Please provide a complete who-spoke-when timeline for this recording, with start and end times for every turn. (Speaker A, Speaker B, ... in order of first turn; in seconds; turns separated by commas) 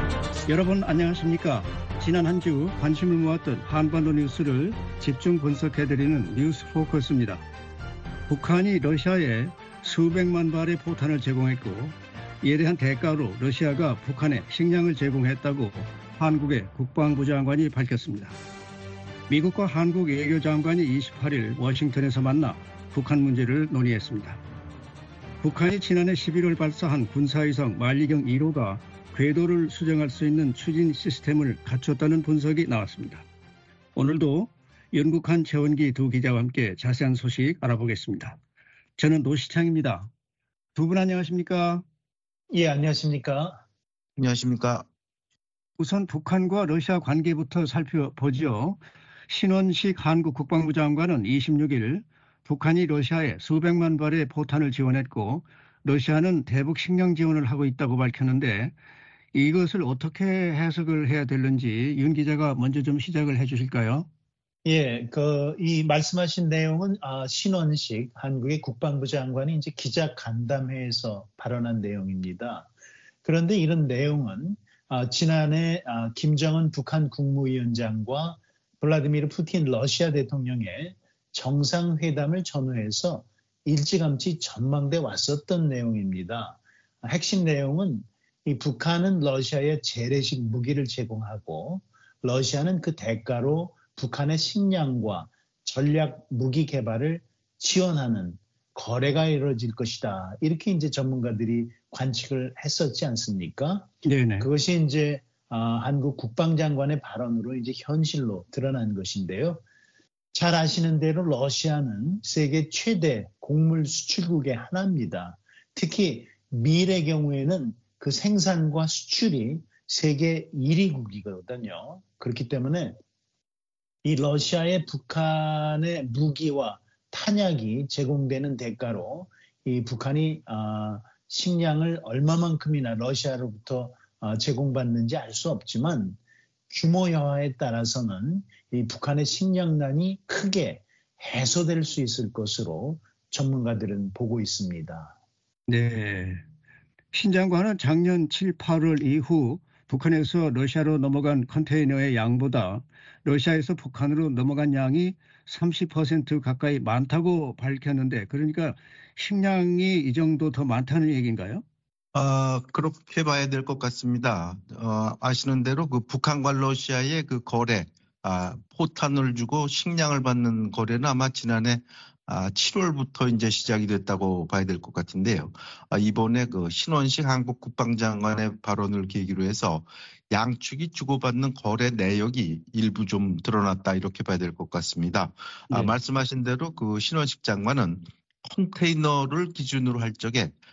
Speaker A: 0.5-7.4, Speaker A: 8.3-18.3, Speaker A: 19.3-24.4, Speaker A: 25.4-33.2, Speaker A: 34.0-38.4, Speaker A: 39.0-40.1, Speaker A: 40.7-41.8, Speaker B: 42.5-43.6, Speaker C: 44.2-44.9, Speaker A: 45.8-58.7, Speaker A: 59.3-64.1, Speaker B: 64.6-72.7, Speaker B: 73.2-109.6, Speaker A: 104.0-104.5, Speaker B: 110.3-123.0, Speaker B: 124.0-136.2, Speaker B: 136.7-145.1, Speaker A: 145.7-146.4, Speaker A: 147.1-161.6, Speaker C: 162.1-190.5